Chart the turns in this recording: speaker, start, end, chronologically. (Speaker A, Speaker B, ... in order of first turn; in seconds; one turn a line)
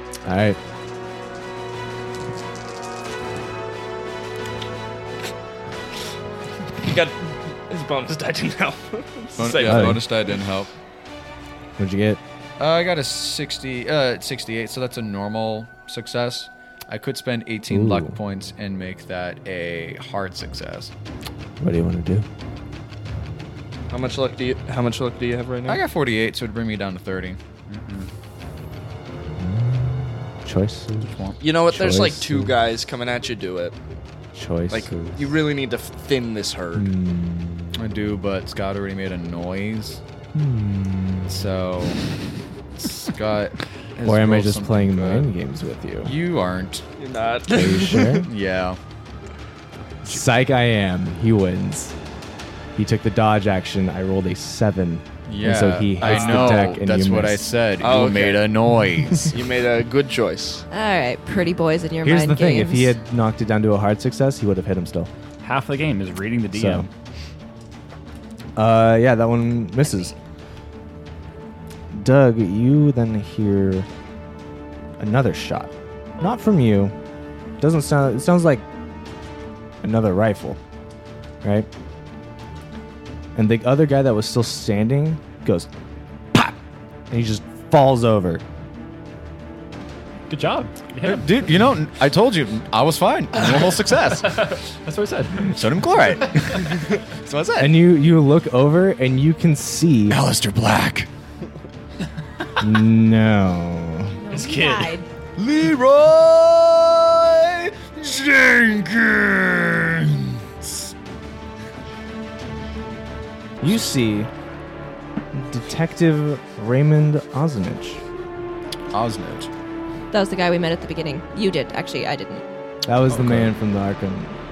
Speaker A: 0.2-0.6
Speaker B: 6.8-10.0
Speaker C: 9.4-10.7
Speaker A: 9.6-10.0
Speaker A: 11.8-12.2
Speaker C: 12.6-20.9
Speaker A: 17.7-18.2
Speaker A: 21.6-22.3
Speaker B: 23.9-25.8
Speaker C: 25.7-27.4
Speaker D: 27.7-28.1
Speaker A: 29.4-31.2
Speaker C: 31.1-31.4
Speaker B: 31.4-33.8
Speaker A: 31.7-32.5
Speaker A: 34.4-35.2
Speaker B: 34.7-36.9
Speaker A: 36.8-37.8
Speaker C: 37.8-40.0
Speaker A: 40.4-41.5
Speaker C: 41.3-42.0
Speaker C: 42.8-45.3
Speaker A: 44.0-46.1
Speaker C: 46.0-46.9
Speaker B: 47.0-48.2
Speaker A: 47.5-48.3
Speaker C: 48.2-48.8
Speaker A: 50.0-52.0
Speaker A: 52.8-57.5
Speaker C: 55.3-59.3
Speaker D: 56.1-56.7
Speaker B: 57.8-58.5
Speaker B: 59.2-60.7
Speaker E: 60.7-63.0
Speaker A: 62.0-65.1
Speaker D: 65.4-66.9
Speaker A: 66.5-66.9
Speaker A: 68.6-70.1
Speaker E: 69.8-70.1
Speaker A: 71.9-73.9
Speaker A: 75.0-76.9
Speaker A: 77.6-78.7
Speaker A: 79.8-80.6
Speaker A: 81.4-81.7
Speaker A: 83.3-85.7
Speaker A: 87.1-88.4
Speaker D: 90.3-91.3
Speaker C: 91.0-94.4
Speaker D: 94.2-95.6
Speaker C: 95.5-97.8
Speaker A: 97.6-100.2
Speaker C: 100.1-101.1
Speaker A: 102.6-104.2
Speaker E: 104.2-105.1
Speaker D: 104.3-105.0
Speaker C: 105.4-110.7
Speaker A: 113.6-114.3
Speaker A: 115.3-118.0
Speaker C: 118.9-119.5
Speaker E: 120.1-122.4
Speaker A: 122.8-124.4
Speaker C: 123.1-123.5